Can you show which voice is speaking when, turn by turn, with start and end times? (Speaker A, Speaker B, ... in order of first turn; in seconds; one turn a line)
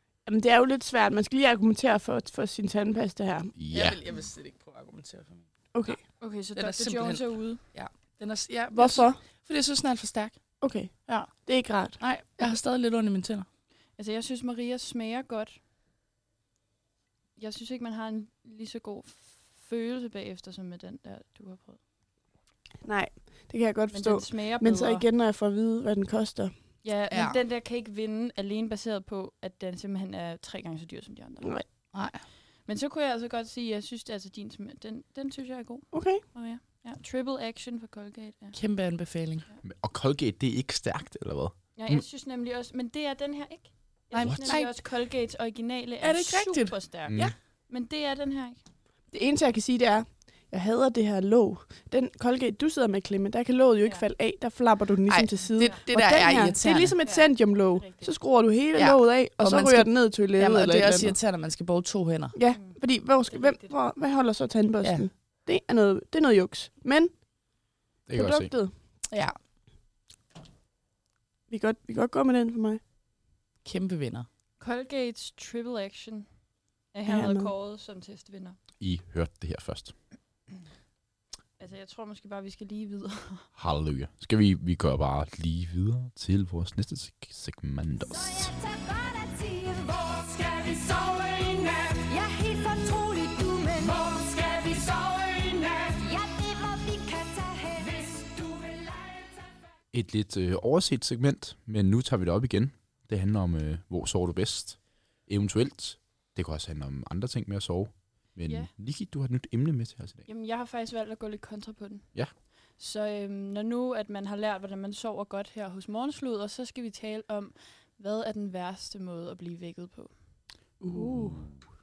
Speaker A: 0.2-3.5
Speaker B: 3.5-4.0
Speaker C: 3.7-13.4
Speaker A: 5.7-6.0
Speaker D: 6.2-7.6
Speaker A: 8.7-9.2
Speaker A: 10.6-12.0
Speaker D: 14.0-15.6
Speaker D: 17.4-21.8
Speaker A: 22.8-26.6
Speaker D: 23.9-25.1
Speaker D: 26.8-31.9
Speaker C: 27.1-27.4
Speaker C: 31.9-32.2
Speaker D: 32.6-38.6
Speaker A: 35.9-36.2
Speaker C: 38.5-39.4
Speaker B: 39.6-42.0
Speaker D: 41.8-48.6
Speaker C: 44.1-44.9
Speaker B: 44.2-44.6
Speaker C: 46.0-47.3
Speaker B: 47.1-47.3
Speaker A: 49.1-61.2
Speaker C: 55.1-57.0
Speaker D: 57.0-58.2
Speaker C: 58.7-62.3
Speaker A: 62.3-68.7
Speaker D: 62.5-63.8
Speaker C: 64.8-65.1
Speaker B: 68.1-68.5
Speaker C: 69.1-69.4
Speaker A: 71.5-72.8
Speaker C: 73.6-74.3
Speaker D: 74.6-78.6
Speaker A: 77.0-77.5
Speaker B: 78.8-79.9
Speaker D: 81.6-83.5
Speaker B: 83.5-88.5
Speaker E: 88.0-99.3
Speaker B: 99.9-110.2
Speaker D: 108.4-108.7
Speaker D: 110.2-120.3
Speaker B: 120.9-121.7
Speaker A: 120.9-121.4